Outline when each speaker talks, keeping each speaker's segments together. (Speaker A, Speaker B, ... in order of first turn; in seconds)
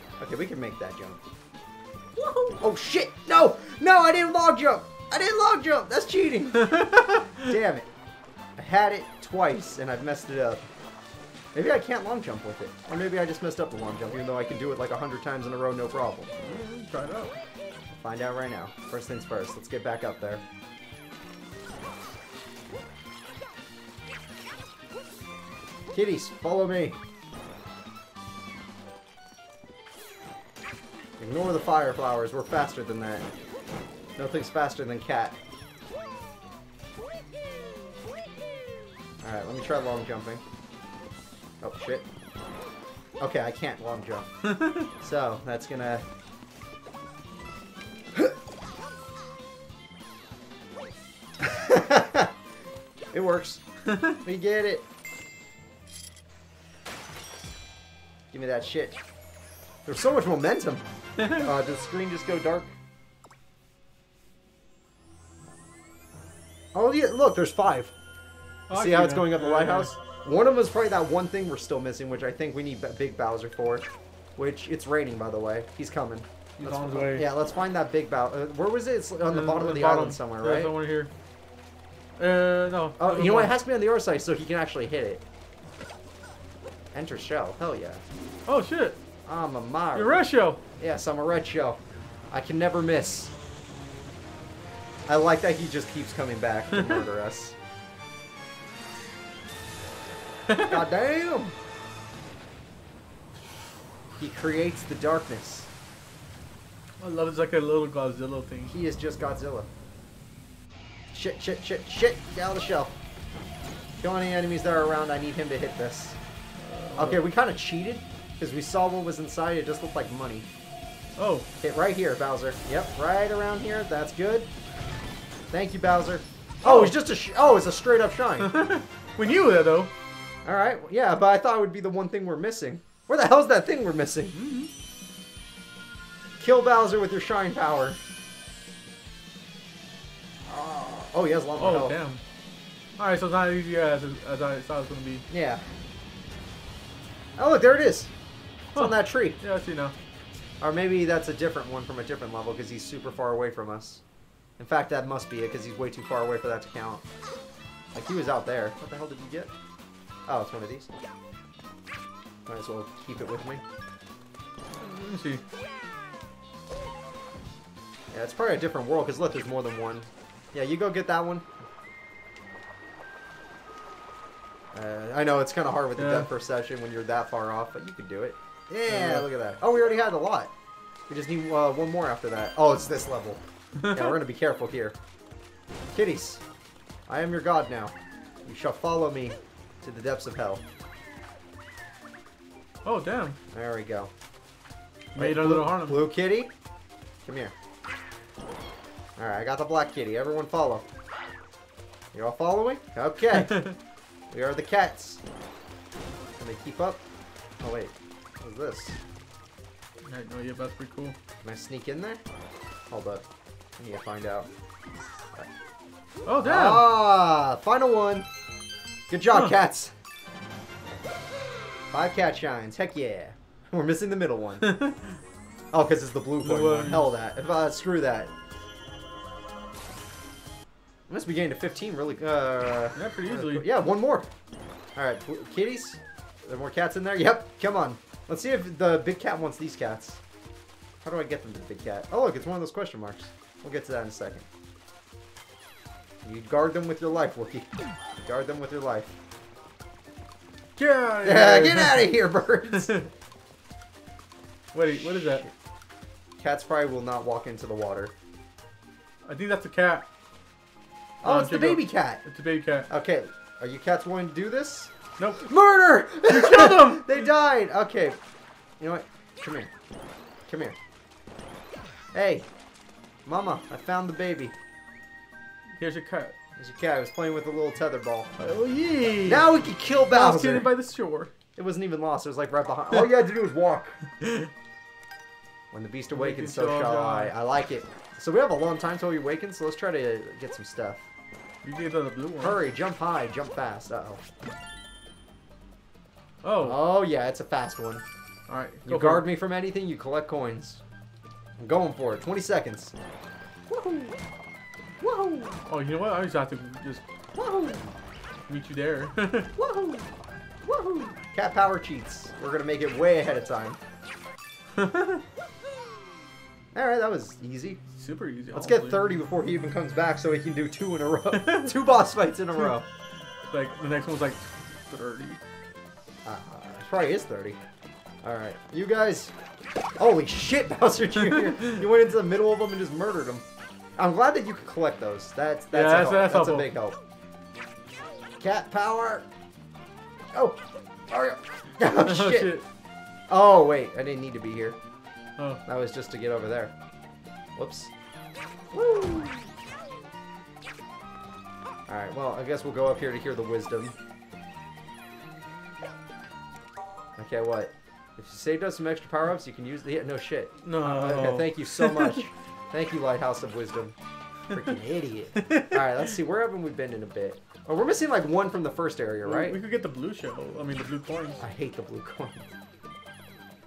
Speaker A: 0.2-1.2, 2.2-7.9, 8.6-10.7, 11.5-16.3, 18.0-20.4, 25.9-27.0, 31.2-33.2, 34.2-35.4, 39.2-40.4, 41.6-42.1, 43.2-46.0, 51.4-52.3, 53.1-53.6, 54.1-54.9, 58.3-59.0, 59.9-62.7, 66.7-67.9, 68.7-80.8, 83.0-85.2, 86.9-88.0, 89.3-93.3, 95.1-97.6, 100.6-101.5, 104.2-105.7, 108.7-109.7, 111.1-113.0, 114.0-116.2, 117.0-120.5, 121.6-124.5, 125.5-128.6, 130.4-134.4, 136.4-138.0, 140.5-142.0, 145.3-145.7, 147.4-148.1, 148.8-149.4, 150.6-154.0, 154.6-157.0, 157.9-159.5, 160.3-160.9, 162.5-163.6, 168.1-171.4, 174.7-180.5, 181.1-185.0, 185.9-186.4, 187.1-187.9, 188.4-190.6, 193.5-194.1, 195.2-196.5, 197.2-197.5, 199.2-200.9, 202.1-203.7, 204.3-205.2, 206.4-207.0, 207.6-209.0, 211.4-212.2, 212.9-213.2, 213.8-214.5, 216.4-218.3, 219.1-219.9, 221.9-224.8, 225.7-228.3, 231.1-234.3, 235.0-240.2, 241.0-244.5, 246.2-247.7, 248.2-249.1, 251.2-253.1, 254.9-255.5, 256.4-258.1, 261.2-262.2, 262.9-268.2, 268.8-269.7, 270.5-270.8, 272.1-272.5, 273.3-274.5, 276.6-278.3, 279.3-280.7, 281.6-284.0, 285.7-291.0, 292.4-294.2, 296.6-298.0, 298.9-300.8, 301.6-302.9, 303.7-304.2, 305.0-305.6, 307.4-307.9, 309.6-310.1, 310.7-313.8, 316.7-317.8, 318.5-322.9, 326.2-327.6, 328.2-329.3, 330.0-333.4, 334.0-337.0, 338.4-339.3, 340.3-342.6, 343.3-344.8, 345.6-346.7, 347.6-347.9, 348.7-349.5, 351.9-354.0, 357.2-363.9, 364.5-369.6, 371.4-372.5
Speaker B: 6.6-7.2, 16.4-17.4, 68.7-70.0, 76.6-77.3, 79.3-81.1, 82.2-83.5, 88.5-89.0, 90.0-90.6, 96.7-97.0, 100.5-100.8, 107.0-108.7, 116.6-117.3, 121.2-121.5, 126.6-127.0, 128.4-129.9, 134.3-134.7, 141.6-142.2, 143.0-145.3, 148.8-149.9, 164.8-165.4, 176.0-176.3, 178.9-179.3, 192.8-193.4, 195.1-196.1, 210.1-211.2, 216.2-216.9, 224.6-225.2, 226.4-227.1, 232.9-233.7, 250.8-252.1, 252.7-253.1, 254.7-255.4, 259.2-260.1, 261.2-262.9, 265.2-265.5, 266.3-267.2, 275.8-276.4, 278.4-279.5, 280.1-281.3, 284.2-284.5, 286.1-287.3, 291.6-292.6, 296.4-296.8, 298.5-299.3, 305.7-307.0, 308.5-309.5, 314.8-315.2, 317.9-319.2, 321.3-321.8, 323.5-325.4, 335.7-336.7, 342.0-342.6, 345.4-345.6, 360.6-362.2, 365.4-365.9, 369.2-371.4